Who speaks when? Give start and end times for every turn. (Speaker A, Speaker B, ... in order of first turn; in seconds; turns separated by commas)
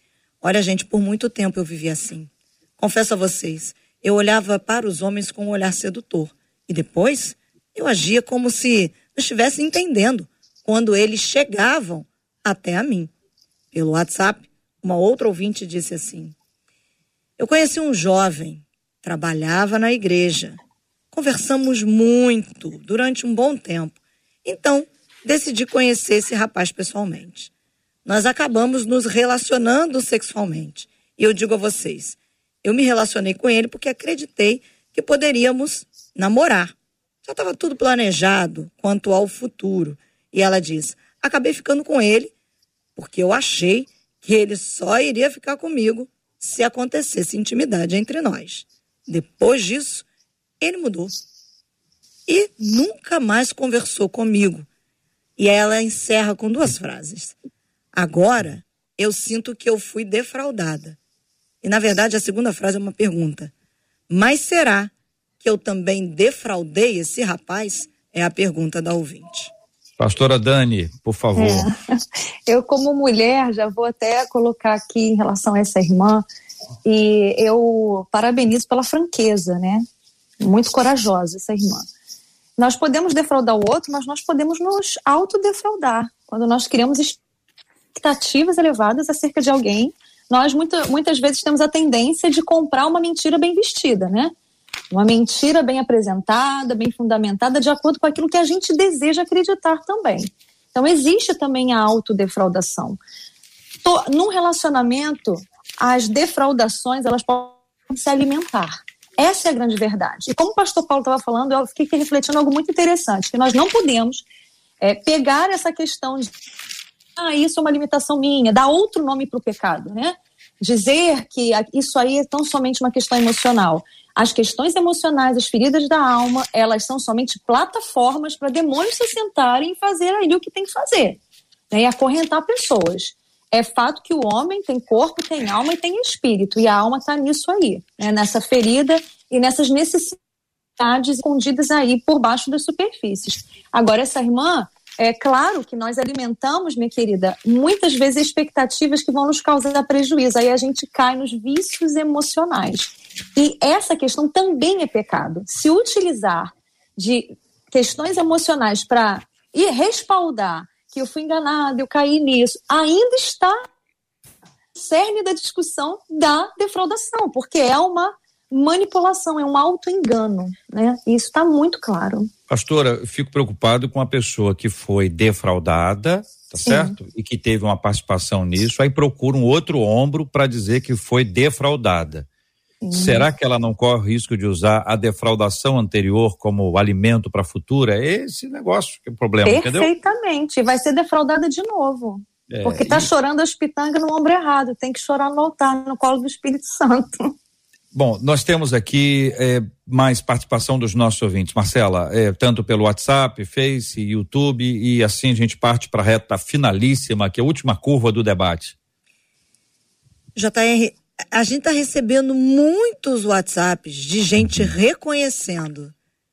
Speaker A: 0.4-13.1, Speaker A: 13.7-16.4, Speaker A: 17.4-20.6, Speaker A: 21.1-27.5, Speaker A: 28.1-42.3, Speaker A: 43.0-50.1, Speaker A: 50.6-51.2, Speaker A: 52.3-54.7, Speaker A: 55.4-57.4, Speaker A: 57.9-61.0, Speaker A: 61.6-63.5, Speaker A: 64.1-69.5, Speaker B: 70.0-71.7, Speaker C: 71.3-71.8, Speaker C: 72.5-76.2, Speaker C: 76.8-79.9, Speaker C: 80.4-81.9, Speaker C: 82.6-87.2, Speaker C: 88.0-94.3, Speaker C: 94.9-103.0, Speaker C: 103.8-114.2, Speaker C: 114.8-116.3, Speaker C: 117.2-131.2, Speaker C: 131.7-140.2, Speaker C: 140.8-163.6, Speaker C: 164.8-172.3, Speaker B: 172.5-182.3, Speaker C: 176.6-176.9, Speaker C: 182.8-183.3, Speaker B: 182.9-189.9, Speaker C: 189.4-197.3, Speaker B: 192.5-193.1, Speaker B: 197.9-208.8, Speaker A: 210.4-215.9, Speaker B: 214.4-214.7